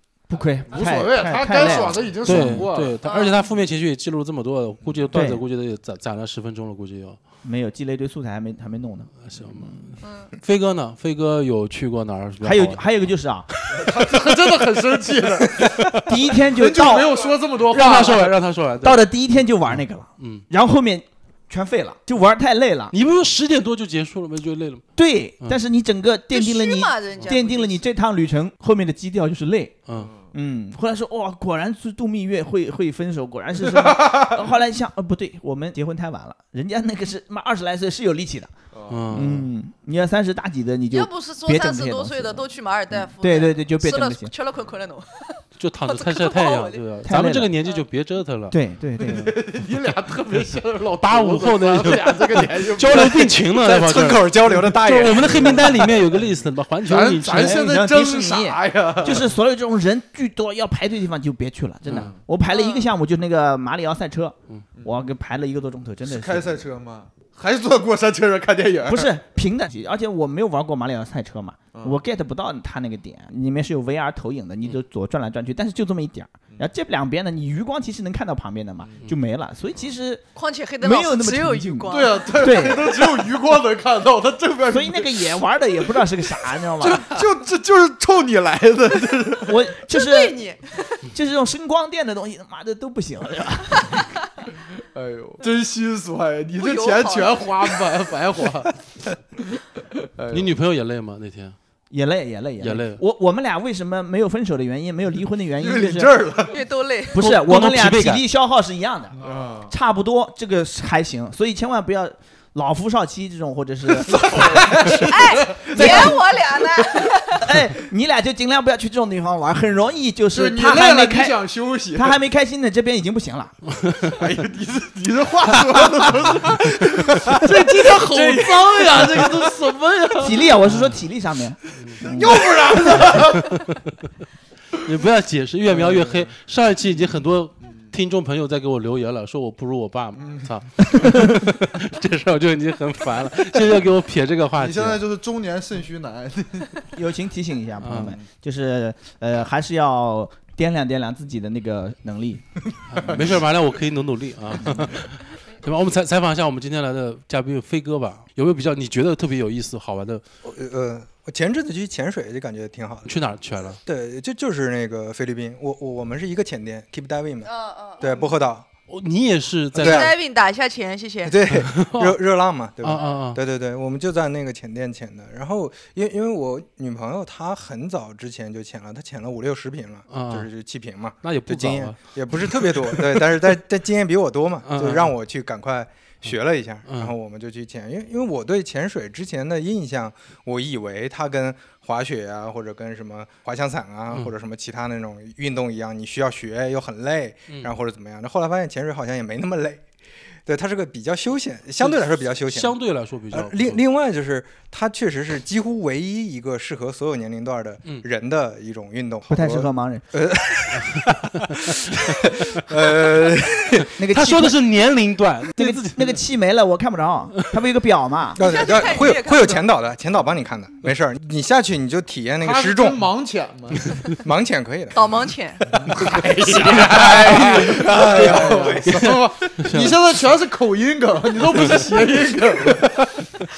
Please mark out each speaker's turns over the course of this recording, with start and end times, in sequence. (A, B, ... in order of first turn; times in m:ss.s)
0:00.3-0:02.7 A
0:00.7-0:03.0 B
0:02.2-0:07.2 C
0:03.0-0:03.4 D
0:05.1-0:05.4 A
0:07.4-0:09.9 A
0:09.2-0:12.8 C
0:10.0-0:10.3 D
0:12.4-0:13.5 A
0:13.7-0:18.3 B
0:16.0-0:18.2 A
0:17.7-0:19.1 C
0:18.8-0:22.9 A
0:19.7-0:20.4 C
0:22.9-0:24.9 C
0:25.0-0:29.8 A
0:26.3-0:27.9 D
0:27.1-0:27.4 B
0:30.0-0:30.3 B
0:30.3-0:38.5 A
0:33.7-0:34.3 B
0:38.7-0:39.2 B
0:38.9-0:39.5 C
0:39.1-0:42.4 A
0:40.9-0:46.9 D
0:43.2-0:44.3 A
0:45.6-0:48.6 C
0:47.0-0:47.5 A
0:48.5-0:49.4 A
0:49.0-0:53.4 B
0:51.0-0:57.7 C
0:53.5-0:56.0 E
0:56.8-0:59.3 B
0:57.3-1:06.6 A
1:01.9-1:02.2 B
1:02.5-1:02.9 D
1:06.1-1:09.1 B
1:08.9-1:20.2 A
1:20.4-1:22.6 D
1:20.8-1:23.2 A
1:21.9-1:25.3 B
1:24.7-1:27.1 A
1:26.8-1:29.6 B
1:29.4-1:30.4 A
1:29.9-1:31.1 D
1:31.1-1:34.0 A
1:33.7-1:34.3 D
1:34.8-1:39.2 B
1:36.6-1:37.9 D
1:40.0-1:40.5 B
1:40.3-1:41.6 C
1:41.9-1:46.3 A
1:42.6-1:43.0 C
1:45.6-1:46.6 B
1:46.5-1:47.2 D
1:47.1-1:49.2 A
1:47.2-1:48.2 C
1:49.2-1:49.7 B
1:49.7-1:55.1 A
1:53.9-1:56.1 B
1:54.9-1:57.5 D
1:55.7-1:56.2 A
1:56.8-1:57.1 B
1:57.4-2:03.6 A
2:00.3-2:02.2 B
2:03.8-2:04.1 C
2:04.1-2:10.6 B
2:07.1-2:09.4 C
2:10.2-2:12.4 A
2:10.6-2:11.0 C
2:11.9-2:13.6 B
2:12.9-2:13.7 C
2:14.7-2:25.0 C
2:15.7-2:16.3 B
2:20.2-2:20.5 B
2:24.6-2:26.8 B
2:27.0-2:32.4 A
2:27.8-2:28.2 C
2:32.9-2:40.2 C
2:40.4-2:43.1 E
2:43.1-2:43.8 C
2:43.9-2:48.7 E
2:47.5-2:48.1 D
2:48.9-2:50.1 C
2:49.8-2:50.1 E
2:49.8-2:51.4 D
2:51.2-3:19.9 E
2:51.5-2:52.2 C
2:52.8-2:53.4 C
3:00.1-3:00.5 C
3:01.2-3:03.5 C
3:04.7-3:05.1 C
3:06.8-3:07.1 C
3:20.5-3:22.8 E
3:21.8-3:23.8 C
3:23.3-3:34.0 E
3:29.3-3:30.0 A
3:30.9-3:31.5 C
3:33.9-3:36.2 C
3:34.0-3:34.6 A
3:35.6-3:38.4 A
3:38.4-3:39.6 D
3:38.4-3:43.0 E
3:42.4-3:44.0 B
3:44.2-3:49.3 E
3:44.9-3:45.8 D
3:45.7-3:53.0 B
3:46.6-3:50.0 C